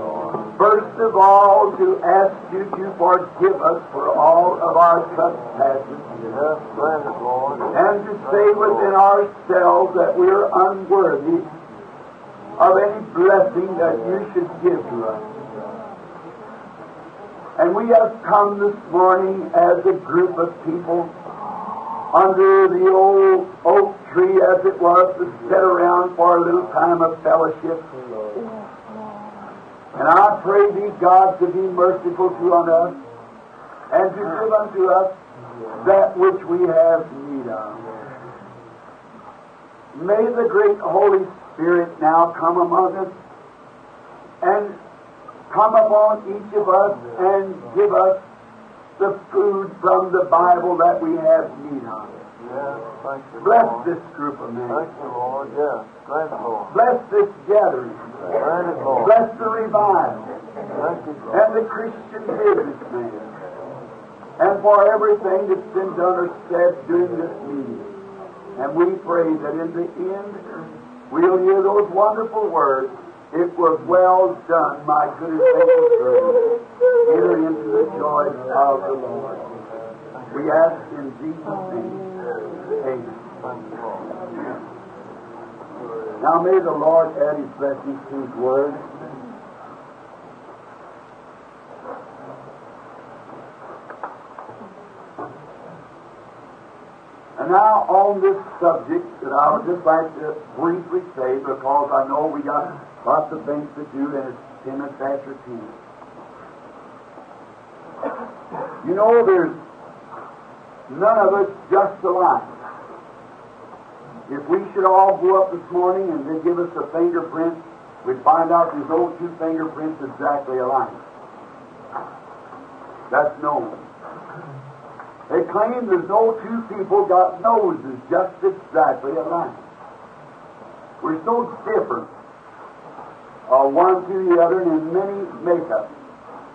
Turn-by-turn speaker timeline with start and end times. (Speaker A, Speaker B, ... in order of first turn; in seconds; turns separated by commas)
Speaker A: 0.5-6.1, Speaker B: 6.3-7.7, Speaker A: 7.7-11.5, Speaker A: 12.6-15.2, Speaker A: 17.6-21.1, Speaker A: 22.1-27.9, Speaker A: 29.9-33.0, Speaker A: 33.9-35.1, Speaker A: 35.8-37.8, Speaker A: 39.9-43.1, Speaker A: 44.4-44.8, Speaker A: 45.5-48.2, Speaker A: 49.0-52.1, Speaker B: 52.4-53.9, Speaker A: 53.4-54.9, Speaker B: 54.7-56.7, Speaker A: 56.7-58.1, Speaker B: 58.3-59.1, Speaker A: 59.0-60.3, Speaker B: 60.7-61.3, Speaker A: 61.3-63.3, Speaker A: 64.4-68.0, Speaker A: 68.5-70.4, Speaker A: 71.1-79.5, Speaker A: 80.3-82.1, Speaker A: 82.8-83.2, Speaker A: 86.2-88.8, Speaker A: 97.3-105.8, Speaker A: 108.8-109.5, Speaker A: 110.9-112.6, Speaker A: 114.3-121.0, Speaker A: 123.1-123.8, Speaker A: 125.3-129.6, Speaker A: 131.0-132.1, Speaker A: 133.5-135.9